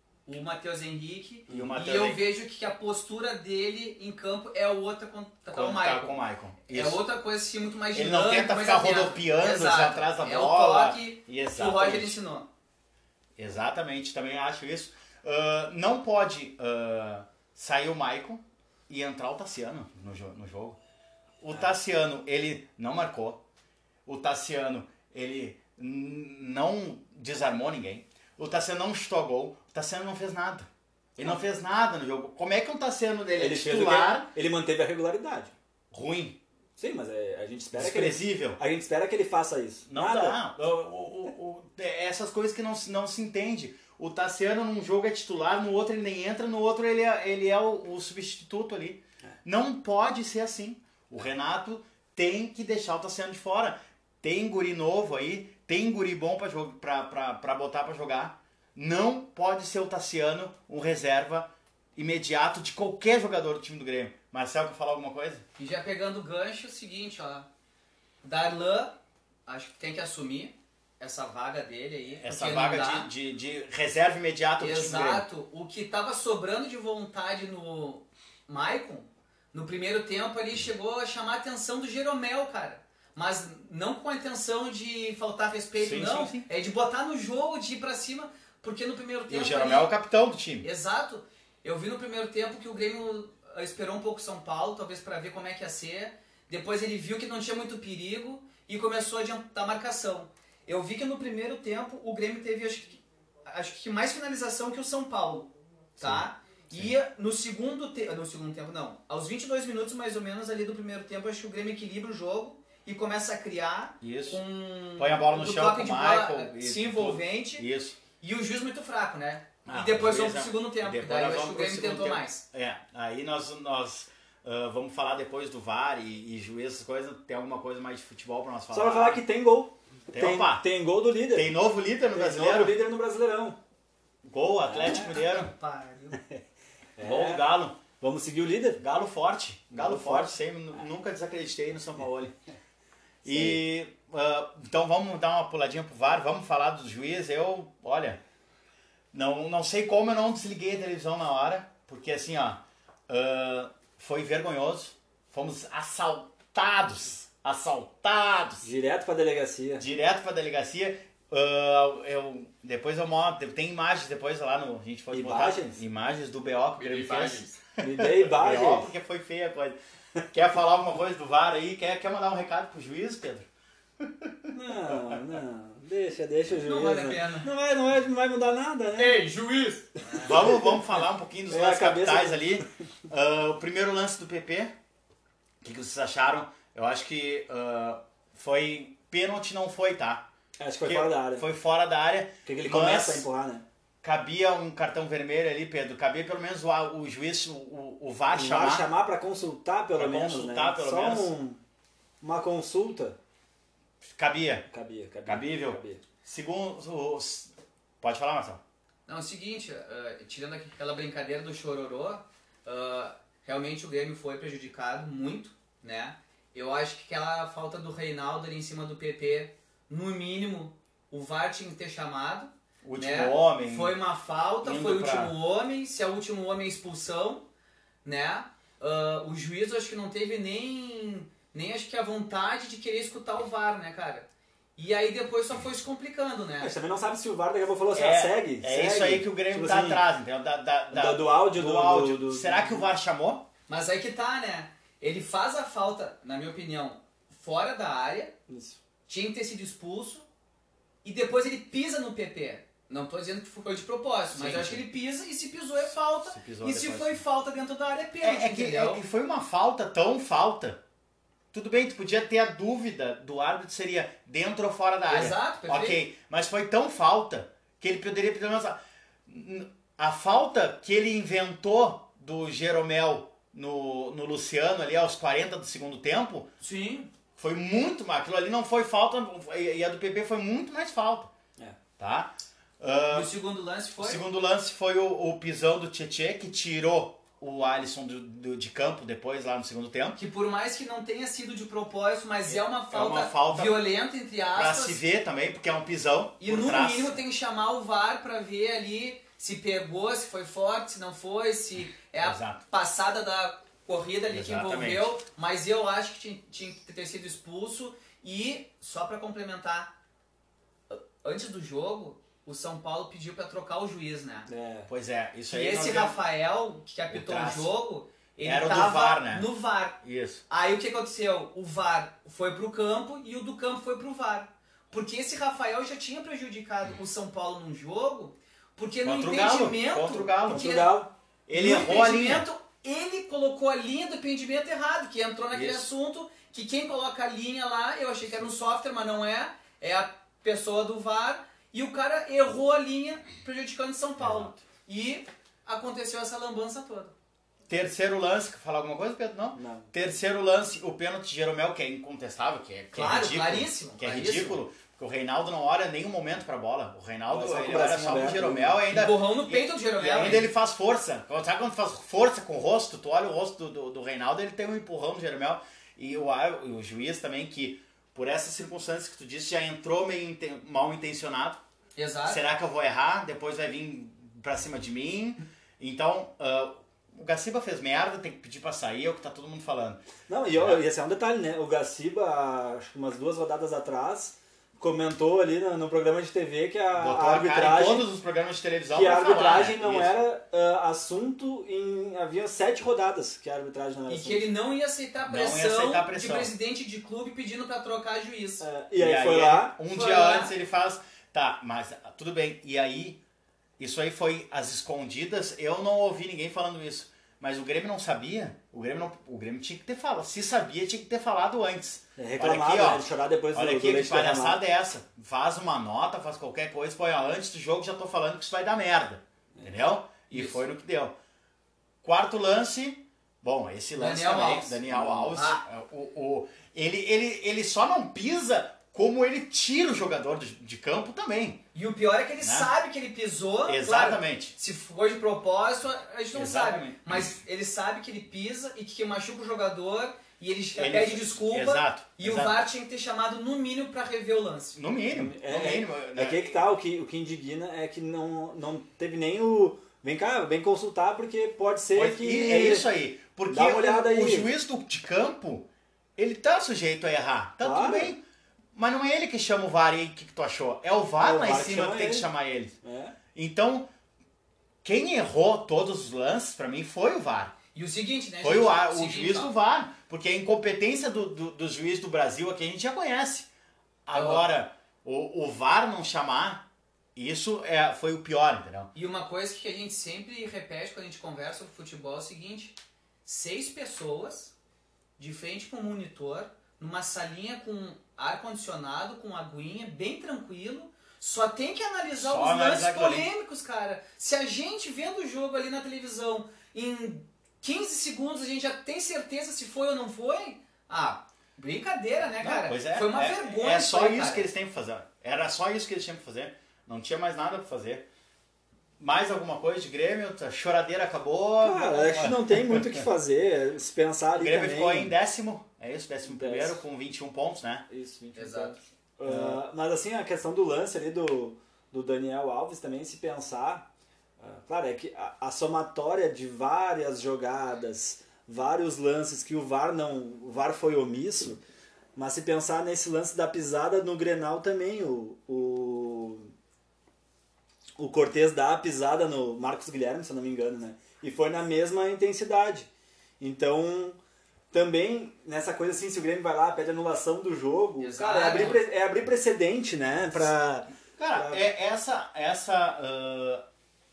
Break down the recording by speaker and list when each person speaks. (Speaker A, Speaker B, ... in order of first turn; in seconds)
Speaker A: 0.3-6.2, 6.7-12.5, 65.6-67.5, 68.2-69.0, 69.5-73.1, 74.6-89.9, 90.6-117.7, 118.2-122.4, 134.8-136.2, 166.8-167.5, 176.5-177.5, 179.0-180.4, 209.1-227.4, 228.0-234.3, 234.8-236.7, 243.7-248.3, 249.1-250.2, 251.0-259.0, 265.1-266.0, 276.6-277.1, 283.1-284.2, 290.2-295.0, 296.4-309.9, 310.9-314.5, 315.5-330.9, 331.5-347.1, 352.9-354.6, 358.9-360.5, 372.0-372.4, 394.1-398.6, 399.9-400.5, 420.3-420.6, 424.0-425.6, 431.8-444.8, 467.7-469.5, 474.1-474.5, 478.9-484.5, 485.2-504.5, 518.4-518.8, 548.0-548.8
Speaker B: 1.5-2.2, 5.5-7.0, 7.9-12.2, 13.4-20.8, 21.4-23.4, 24.1-34.3, 35.9-36.4, 37.8-38.6, 39.9-65.4, 72.2-75.2, 85.8-86.5, 89.3-90.7, 106.0-106.9, 114.0-114.4, 115.0-118.0, 119.7-129.2, 130.1-130.7, 131.3-132.8, 134.3-135.5, 137.0-137.8, 138.8-142.3, 143.2-148.2, 149.1-158.7, 159.8-169.8, 170.3-173.5, 174.0-175.2, 180.2-184.7, 185.6-190.3, 190.8-193.3, 194.0-198.9, 199.9-201.3, 204.0-204.7, 205.3-208.6, 222.8-224.0, 224.6-225.3, 237.9-243.5, 254.3-254.9, 256.2-257.2, 258.2-260.8, 261.5-276.5, 277.4-281.3, 282.0-283.3, 284.0-290.2, 292.5-293.8, 294.6-297.2, 302.2-302.6, 304.3-305.1, 314.9-316.2, 317.1-317.7, 318.4-319.5, 320.0-320.4, 329.0-330.8, 331.5-332.5, 335.5-335.9, 344.2-344.6, 347.7-371.6, 372.3-380.8, 386.9-390.1, 395.3-396.5, 399.0-403.2, 403.8-421.1, 422.0-431.6, 432.4-432.7, 433.7-434.6, 436.3-437.4, 440.8-442.6, 444.8-446.6, 451.9-458.2, 458.8-462.8, 463.4-463.9, 464.8-467.5, 468.4-473.5, 474.1-476.6, 477.2-478.9, 492.1-493.3, 502.4-508.1, 509.0-513.0, 514.4-517.9, 519.3-519.6, 551.2-553.6
Speaker C: 33.4-35.5, 36.8-40.4, 128.7-131.6, 132.1-133.6, 134.7-135.1, 136.1-136.4, 137.0-137.4, 138.0-138.8, 139.7-140.4, 143.2-143.6, 158.6-159.9, 165.1-165.8, 167.8-168.9, 174.5-179.3, 180.1-180.7, 181.5-182.7, 190.6-191.5, 192.5-193.7, 198.3-201.6, 202.2-203.2, 204.7-206.0, 236.6-240.0, 240.9-242.9, 248.5-248.8, 314.5-314.9, 330.5-331.1, 349.6-349.9, 357.3-358.8, 380.3-388.1, 388.9-394.5, 398.6-399.8, 412.2-414.6, 424.9-425.3, 445.1-452.9, 453.5-454.5, 457.6-458.1, 461.2-462.3, 462.8-463.2, 511.6-515.1, 516.3-516.8, 517.9-523.9, 524.4-531.6, 532.1-536.5, 538.0-542.9, 543.4-544.2, 544.7-551.7